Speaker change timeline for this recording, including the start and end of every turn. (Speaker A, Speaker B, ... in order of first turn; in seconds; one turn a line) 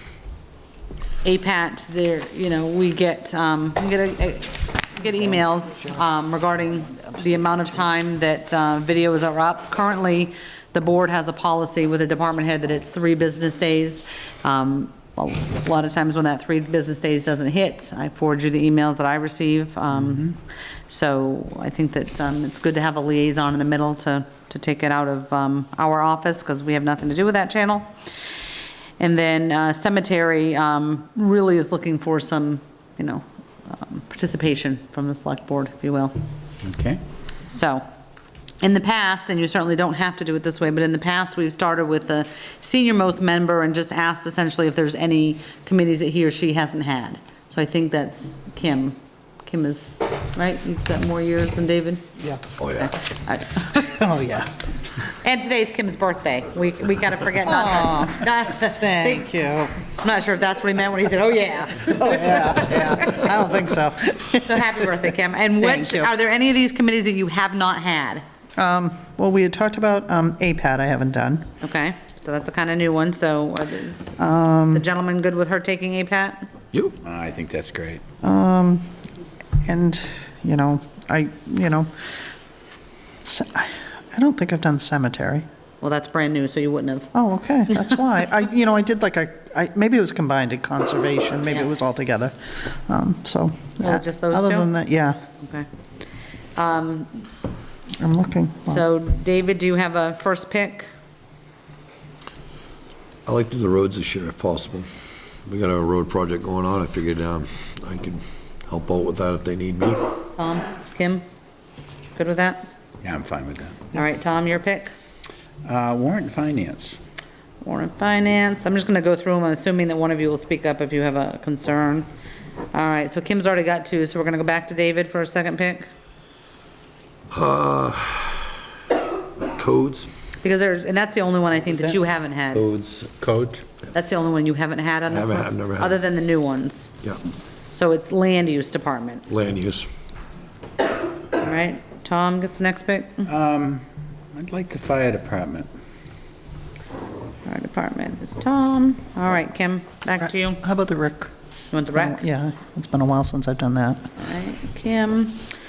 Speaker A: 1.2-27.9
Speaker A: 29.0-36.1
Speaker B: 36.6-37.0
Speaker A: 37.5-37.8
Speaker A: 38.6-52.1
Speaker C: 52.6-53.0
Speaker A: 52.8-53.9
Speaker D: 53.8-54.5
Speaker A: 55.2-63.2
Speaker D: 57.5-59.7
Speaker D: 61.9-64.9
Speaker A: 64.4-68.2
Speaker D: 65.6-66.1
Speaker D: 68.6-71.5
Speaker A: 71.6-74.2
Speaker D: 74.2-74.8
Speaker A: 74.7-76.5
Speaker B: 77.0-78.0
Speaker D: 78.2-78.9
Speaker D: 79.7-81.9
Speaker D: 83.2-85.4
Speaker A: 85.8-87.1
Speaker D: 87.1-95.2
Speaker A: 93.8-94.7
Speaker A: 95.4-95.7
Speaker A: 96.5-97.3
Speaker D: 98.0-98.8
Speaker A: 98.7-100.9
Speaker C: 103.2-104.9
Speaker C: 105.5-110.1
Speaker A: 110.4-111.2
Speaker A: 112.2-112.7
Speaker B: 113.0-113.8
Speaker A: 113.9-114.9
Speaker B: 115.7-117.0
Speaker A: 117.6-122.1
Speaker A: 122.7-125.9
Speaker C: 127.3-128.6
Speaker C: 129.4-130.1
Speaker A: 130.4-132.7
Speaker C: 132.5-133.1
Speaker B: 133.2-133.6
Speaker A: 133.9-136.9
Speaker C: 135.1-136.0
Speaker A: 137.8-139.2
Speaker C: 139.3-139.9
Speaker A: 141.4-143.3
Speaker B: 143.3-145.7
Speaker A: 147.4-150.6
Speaker D: 150.6-151.3
Speaker A: 151.7-152.3
Speaker D: 151.9-154.1
Speaker A: 154.2-155.4